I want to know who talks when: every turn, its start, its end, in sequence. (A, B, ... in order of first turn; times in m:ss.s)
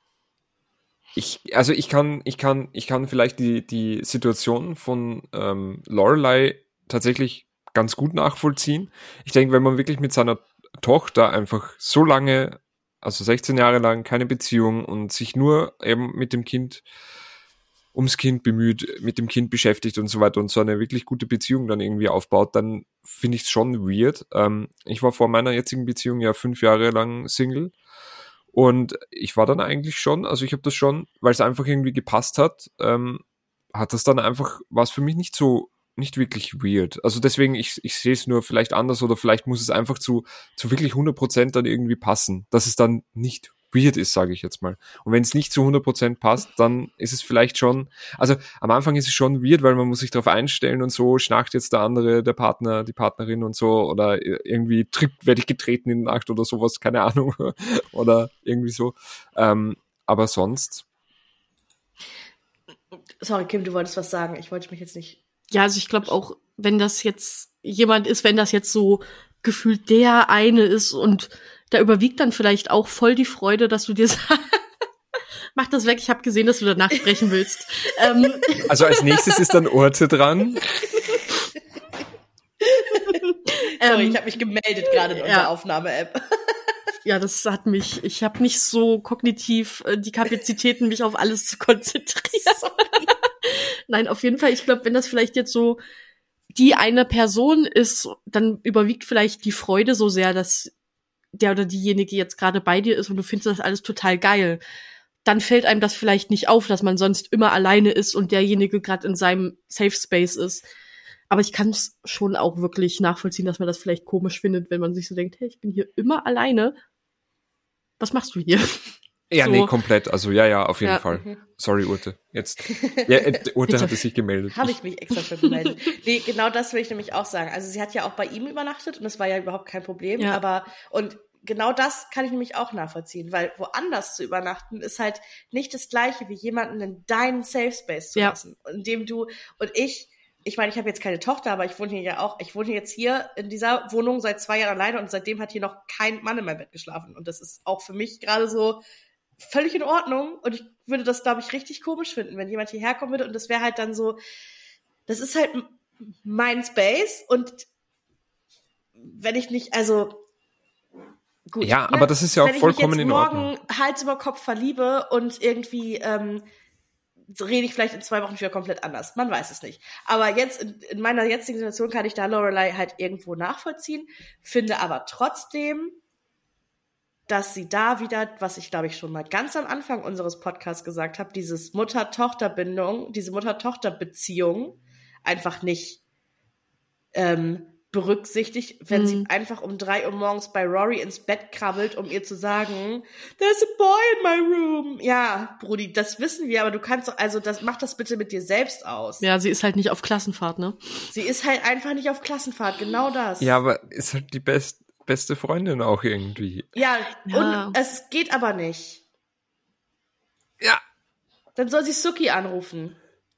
0:01.2-0:16.8 A
0:17.9-0:27.7 A
0:28.5-1:00.8 A
1:03.2-1:05.2 B
1:05.5-1:14.6 C
1:15.6-1:18.7 C
1:18.7-1:20.9 A
1:22.7-1:23.2 B
1:23.5-1:24.2 C
1:23.8-1:26.2 B
1:25.1-1:25.5 C
1:27.0-1:35.8 C
1:32.5-1:33.1 B
1:36.5-1:40.7 C
1:41.4-1:44.6 C
1:45.2-1:50.7 C
1:51.3-1:56.8 C
1:58.0-1:59.7 C
1:59.3-2:04.8 A
2:01.1-2:01.4 B
2:02.7-2:03.4 B
2:04.5-2:28.8 B
2:29.4-2:34.2 B
2:35.1-2:37.7 B
2:39.0-2:40.2 B
2:41.5-2:46.4 B
2:41.6-2:43.5 A
2:47.3-2:56.0 B
2:57.3-3:06.0 B
3:07.1-3:19.2 B
3:08.9-3:09.3 C
3:19.2-3:21.0 C
3:21.1-3:23.6 B
3:23.4-3:26.7 A
3:26.8-3:29.0 B
3:27.3-3:27.8 C
3:31.6-3:33.0 B